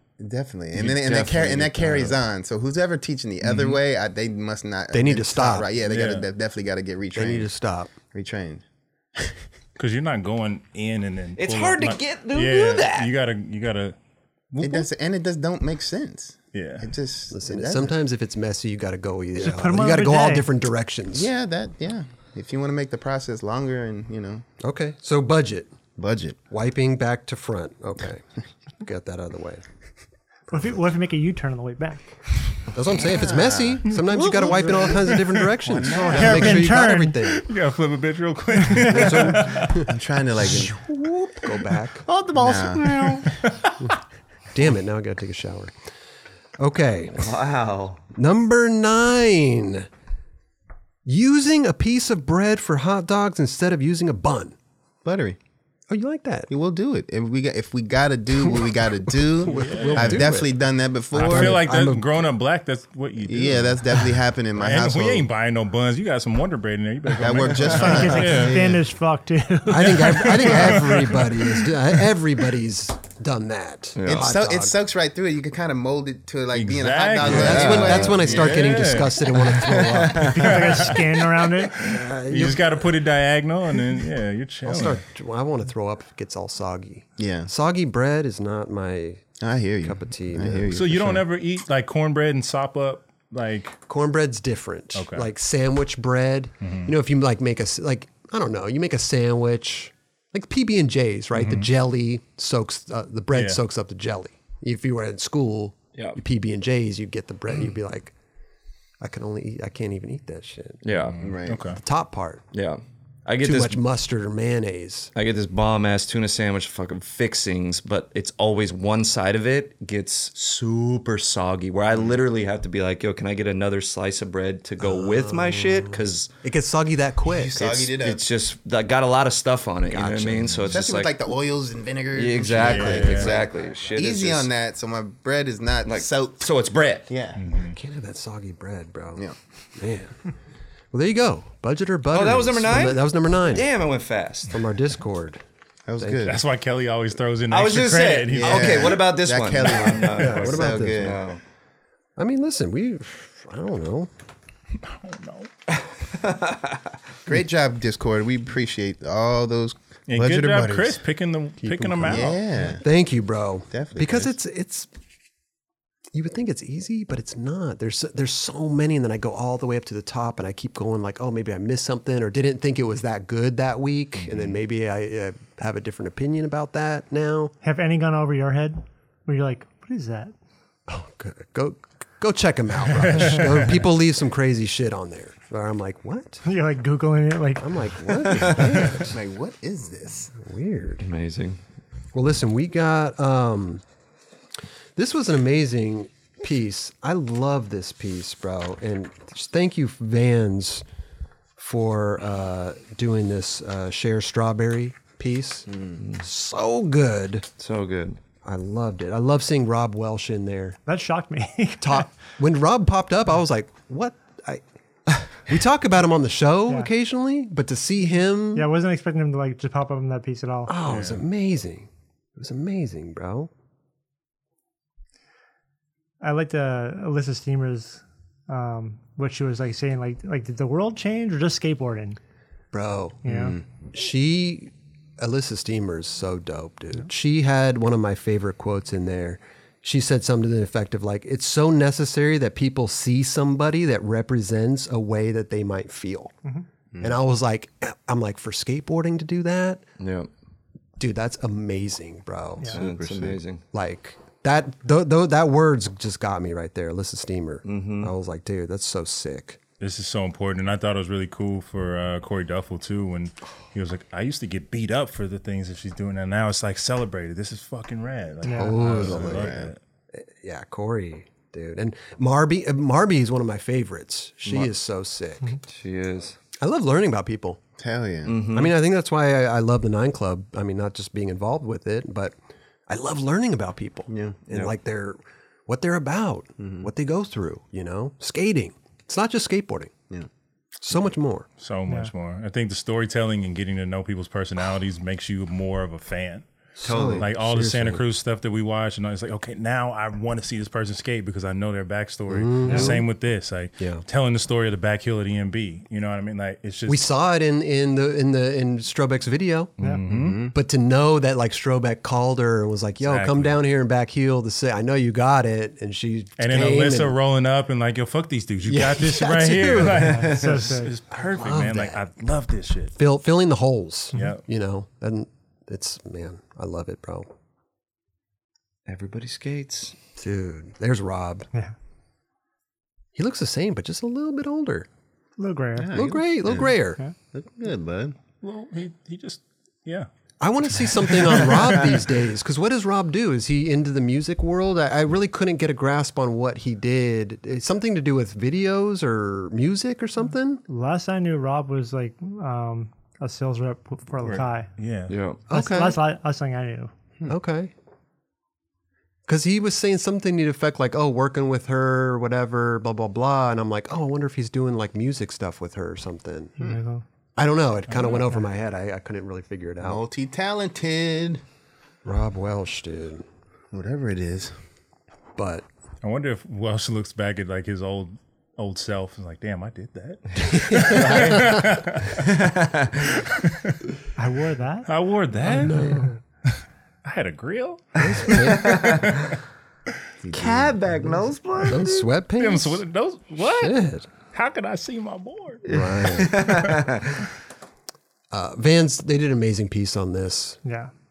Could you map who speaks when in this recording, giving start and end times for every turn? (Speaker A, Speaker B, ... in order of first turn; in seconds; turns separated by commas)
Speaker A: 0.2-7.5, Speaker B: 0.7-2.2, Speaker B: 3.4-3.8, Speaker C: 4.9-5.7, Speaker B: 5.8-6.3, Speaker C: 7.1-7.9, Speaker A: 8.1-8.6, Speaker B: 9.8-14.0, Speaker D: 11.4-13.1, Speaker B: 14.5-14.9, Speaker A: 14.6-18.0, Speaker B: 16.5-16.9, Speaker C: 17.3-21.3, Speaker E: 19.4-20.5, Speaker A: 21.1-24.5, Speaker C: 24.6-25.8, Speaker A: 26.0-26.4, Speaker C: 26.5-28.2, Speaker C: 28.8-29.6, Speaker E: 30.5-32.0, Speaker C: 32.7-37.5, Speaker A: 32.9-35.1, Speaker B: 33.9-35.6, Speaker A: 35.7-36.7, Speaker E: 35.9-37.2, Speaker B: 37.3-39.9, Speaker C: 38.8-42.8, Speaker A: 39.9-40.8, Speaker A: 42.1-43.2, Speaker B: 42.4-43.9, Speaker C: 44.5-45.7, Speaker C: 46.6-47.3, Speaker D: 47.1-48.0, Speaker C: 48.1-49.9, Speaker C: 51.1-54.5, Speaker A: 55.0-55.4, Speaker C: 55.9-56.5, Speaker A: 56.5-61.7, Speaker C: 58.4-60.6, Speaker B: 59.5-60.5, Speaker C: 61.1-62.2, Speaker B: 61.1-68.7, Speaker A: 63.3-65.3, Speaker A: 67.1-68.8, Speaker E: 67.8-70.6, Speaker C: 69.7-74.8, Speaker B: 70.5-71.7, Speaker D: 74.0-74.3, Speaker A: 74.1-78.8, Speaker B: 76.5-85.0, Speaker C: 77.2-80.9, Speaker D: 77.6-78.0, Speaker D: 79.5-80.5, Speaker E: 80.3-81.8, Speaker C: 81.8-82.9, Speaker C: 84.6-90.9, Speaker A: 87.2-87.5, Speaker A: 89.4-91.3, Speaker B: 90.7-93.8, Speaker C: 93.9-108.2, Speaker B: 95.0-95.3, Speaker B: 96.6-96.9, Speaker B: 101.4-101.7, Speaker B: 103.3-103.6, Speaker C: 109.0-110.8, Speaker D: 110.8-111.2, Speaker B: 111.0-111.8, Speaker A: 111.2-111.7, Speaker C: 111.7-112.5, Speaker D: 112.5-113.8, Speaker C: 113.4-115.1, Speaker D: 115.2-126.3, Speaker C: 124.8-127.6, Speaker A: 127.3-128.2, Speaker D: 127.5-131.2, Speaker C: 129.9-130.7, Speaker A: 130.7-136.5, Speaker D: 132.1-134.5, Speaker B: 132.6-133.4, Speaker D: 135.8-137.1, Speaker A: 137.1-137.4, Speaker B: 137.4-137.8, Speaker C: 137.7-139.2, Speaker C: 139.8-140.2, Speaker C: 140.9-143.7, Speaker D: 142.1-144.6, Speaker C: 144.5-145.4, Speaker A: 145.9-146.4, Speaker C: 146.0-146.4, Speaker B: 146.2-148.9, Speaker D: 147.5-151.4, Speaker A: 148.3-151.3, Speaker C: 150.1-151.2, Speaker C: 152.2-154.1, Speaker B: 154.8-155.5, Speaker D: 156.2-156.8, Speaker A: 157.3-161.1, Speaker B: 160.1-162.7, Speaker C: 161.6-164.9, Speaker A: 162.0-162.8, Speaker A: 163.7-164.3, Speaker C: 166.1-177.5, Speaker B: 174.2-174.6, Speaker E: 177.6-180.3, Speaker C: 180.9-186.4, Speaker B: 183.0-183.7, Speaker E: 186.4-187.7, Speaker C: 187.6-189.2, Speaker D: 188.2-188.8, Speaker A: 188.9-190.3, Speaker C: 190.3-191.1, Speaker D: 191.0-191.6, Speaker C: 192.1-193.8, Speaker C: 195.0-200.8, Speaker C: 201.6-207.5, Speaker D: 206.0-206.2, Speaker D: 207.6-208.2, Speaker C: 208.4-210.8, Speaker E: 210.9-212.1, Speaker C: 211.8-218.7, Speaker E: 218.6-220.7, Speaker C: 220.7-223.5, Speaker B: 220.9-221.2, Speaker E: 226.2-232.2, Speaker C: 232.7-246.3, Speaker E: 233.2-233.6, Speaker A: 233.3-233.6, Speaker A: 246.9-247.2, Speaker C: 247.0-249.8, Speaker D: 250.0-250.3, Speaker C: 251.0-252.8, Speaker A: 252.7-253.4, Speaker D: 252.7-253.6, Speaker C: 253.7-259.6, Speaker D: 257.6-258.1, Speaker B: 259.8-269.8, Speaker E: 268.4-268.8, Speaker C: 268.4-269.6, Speaker A: 269.0-269.7, Speaker C: 270.1-275.6, Speaker D: 275.7-276.4, Speaker C: 276.6-277.6, Speaker A: 277.8-278.4, Speaker D: 278.2-278.7, Speaker C: 278.5-282.4, Speaker C: 282.9-289.9, Speaker A: 284.1-284.4, Speaker A: 286.6-286.9, Speaker C: 290.8-291.5, Speaker B: 291.6-296.5, Speaker E: 291.9-292.1, Speaker C: 296.8-298.1, Speaker A: 296.9-297.2, Speaker B: 297.1-307.0, Speaker C: 302.3-303.1, Speaker E: 302.6-303.0, Speaker C: 303.8-304.1, Speaker C: 306.9-309.7, Speaker B: 309.8-310.5, Speaker A: 310.1-310.5, Speaker C: 310.3-317.2, Speaker B: 313.0-313.6, Speaker B: 316.4-322.9, Speaker C: 318.6-320.3, Speaker E: 319.8-320.9, Speaker C: 321.2-322.0, Speaker C: 323.0-327.3, Speaker B: 324.1-324.4, Speaker D: 328.9-329.9, Speaker C: 330.2-331.5, Speaker C: 333.1-334.9, Speaker E: 335.4-335.9, Speaker A: 335.8-336.8, Speaker C: 335.9-337.0, Speaker A: 337.3-338.2, Speaker B: 338.4-340.1, Speaker C: 340.4-350.6, Speaker B: 341.1-341.5, Speaker E: 350.7-354.7, Speaker B: 354.2-355.2, Speaker D: 355.1-355.4, Speaker C: 355.5-356.0, Speaker E: 355.5-356.9, Speaker C: 357.3-357.7, Speaker C: 359.3-366.6, Speaker E: 366.6-367.0, Speaker C: 367.4-370.0, Speaker B: 367.9-368.2, Speaker A: 369.8-371.4, Speaker C: 372.0-373.2, Speaker A: 373.7-374.5, Speaker C: 375.4-375.7, Speaker B: 376.0-382.4, Speaker C: 380.4-381.7, Speaker D: 382.3-382.9, Speaker B: 383.0-383.9, Speaker E: 384.2-384.9, Speaker B: 384.9-386.0, Speaker C: 385.5-386.2, Speaker B: 387.1-389.4, Speaker C: 388.0-389.1, Speaker D: 388.3-389.1, Speaker A: 390.2-391.2, Speaker D: 390.3-392.1, Speaker C: 391.6-392.8, Speaker B: 392.4-395.6, Speaker C: 393.4-394.1, Speaker C: 395.7-396.6, Speaker D: 395.7-397.2, Speaker C: 398.3-400.6, Speaker E: 400.6-400.9